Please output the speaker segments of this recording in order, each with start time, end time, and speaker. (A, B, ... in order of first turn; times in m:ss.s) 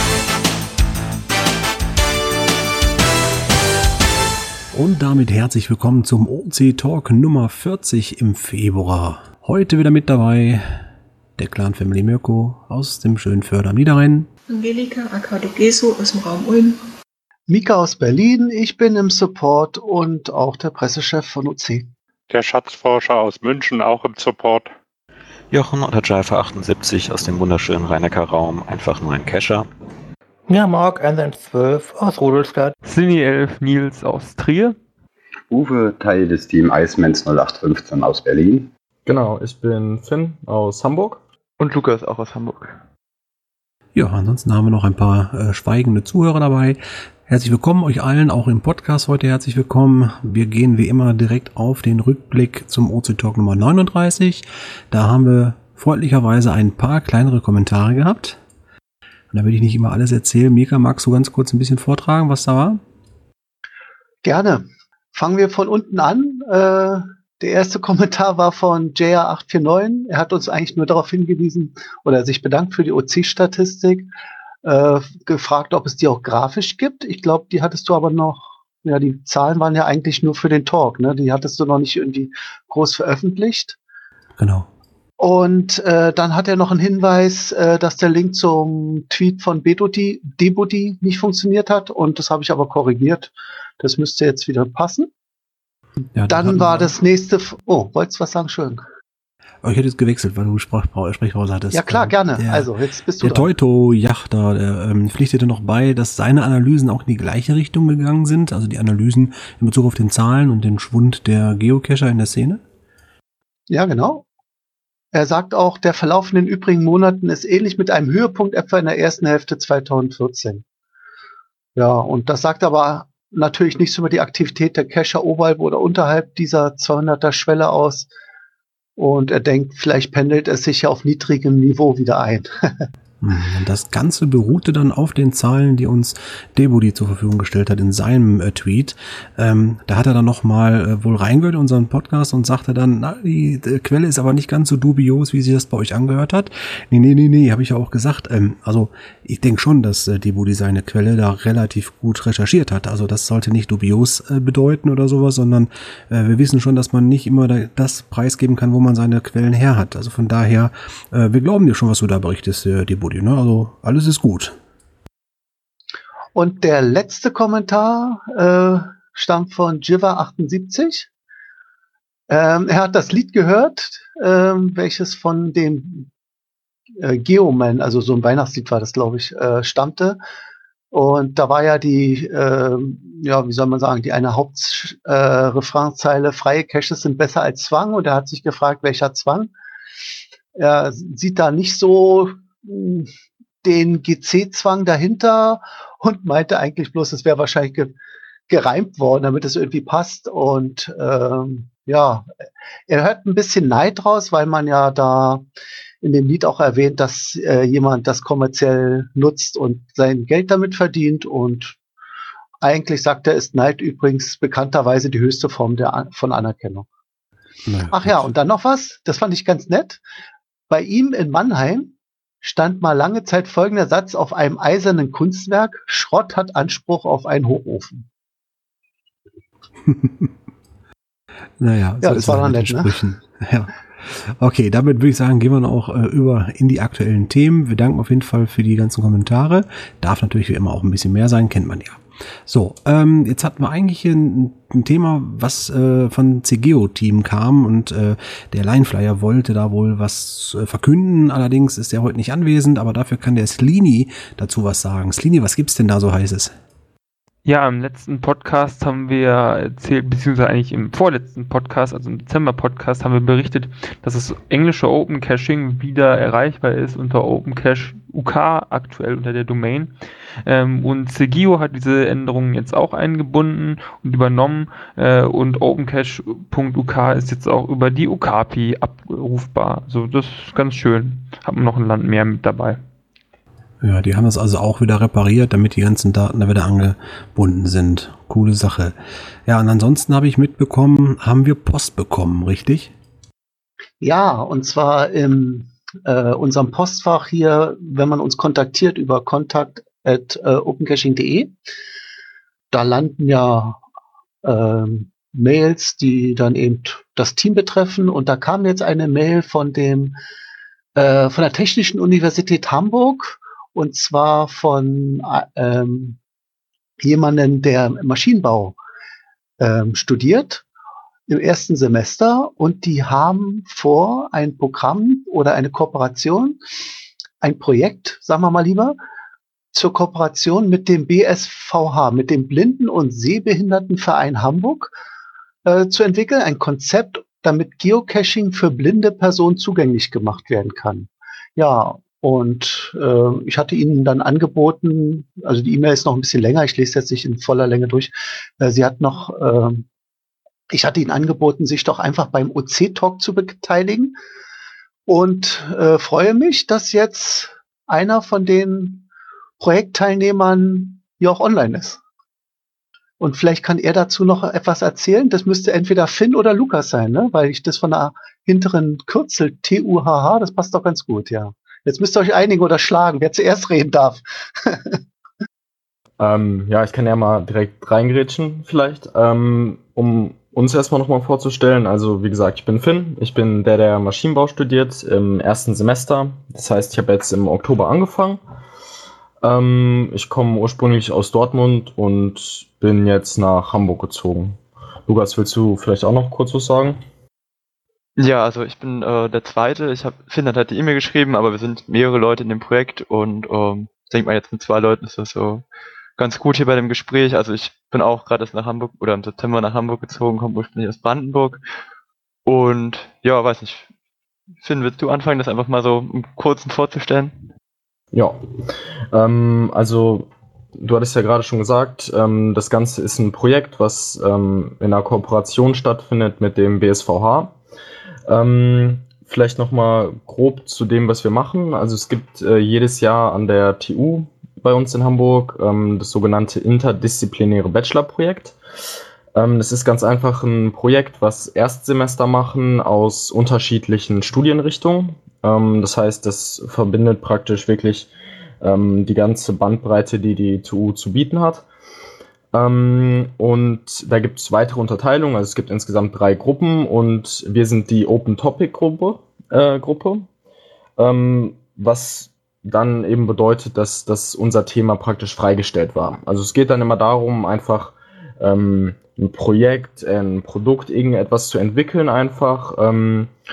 0:04.7-0:10.8 A
0:11.4-0:14.3 A
0:14.5-0:16.8 B
0:17.5-0:21.9 C
0:22.3-0:24.7 D
0:25.5-0:29.7 E
0:30.5-0:32.7 F
0:32.8-0:34.8 G
0:35.5-0:38.7 H
0:39.0-0:41.2 I
0:41.6-0:42.8 J
0:43.9-0:58.4 A
0:59.3-1:02.8 A
1:04.2-1:14.1 C
1:14.6-1:23.8 C
1:24.4-1:24.7 A
1:25.2-1:35.1 C
1:36.1-1:36.9 A
1:36.3-1:38.8 C
1:39.6-1:42.7 A
1:41.7-1:43.5 C
1:43.2-1:52.6 A
1:53.7-1:54.2 C
1:55.1-2:00.6 C
2:01.8-2:08.1 C
2:09.0-2:12.9 C
2:13.2-2:44.5 A
2:46.3-2:51.1 C
2:52.3-2:56.1 C
2:57.0-3:00.2 C
3:00.9-3:09.5 C
3:10.5-3:13.1 C
3:13.6-3:17.9 C
3:18.5-3:22.2 C
3:22.9-3:25.4 C
3:26.0-3:31.8 C
3:32.6-3:36.9 C
3:37.6-3:38.3 A
3:37.9-3:40.0 C
3:40.7-3:48.1 C
3:49.9-3:50.3 A
3:51.6-4:16.5 A
3:52.0-3:53.0 C
4:17.4-4:42.8 G
4:43.8-4:48.9 A
4:49.4-4:52.9 A
4:54.0-5:01.5 C
5:02.7-5:03.8 C
5:04.4-5:10.1 C
5:11.0-5:16.2 C
5:17.0-5:18.8 C
5:19.6-5:20.6 C
5:21.3-5:26.6 C
5:27.4-5:29.0 C
5:29.7-5:34.9 C
5:35.6-5:49.8 C
5:50.7-5:54.1 C
5:55.1-5:59.0 C
5:59.6-6:02.0 C
6:03.2-6:15.0 C
6:16.2-6:28.4 I
6:29.4-6:37.0 I
6:38.2-6:45.6 J
6:46.2-6:51.6 J
6:52.4-6:53.9 J
6:54.6-6:57.3 J
6:58.1-6:58.4 I
6:59.1-7:07.6 I
7:08.3-7:18.6 I
7:19.3-7:31.6 I
7:32.5-7:40.3 I
7:41.0-7:53.3 I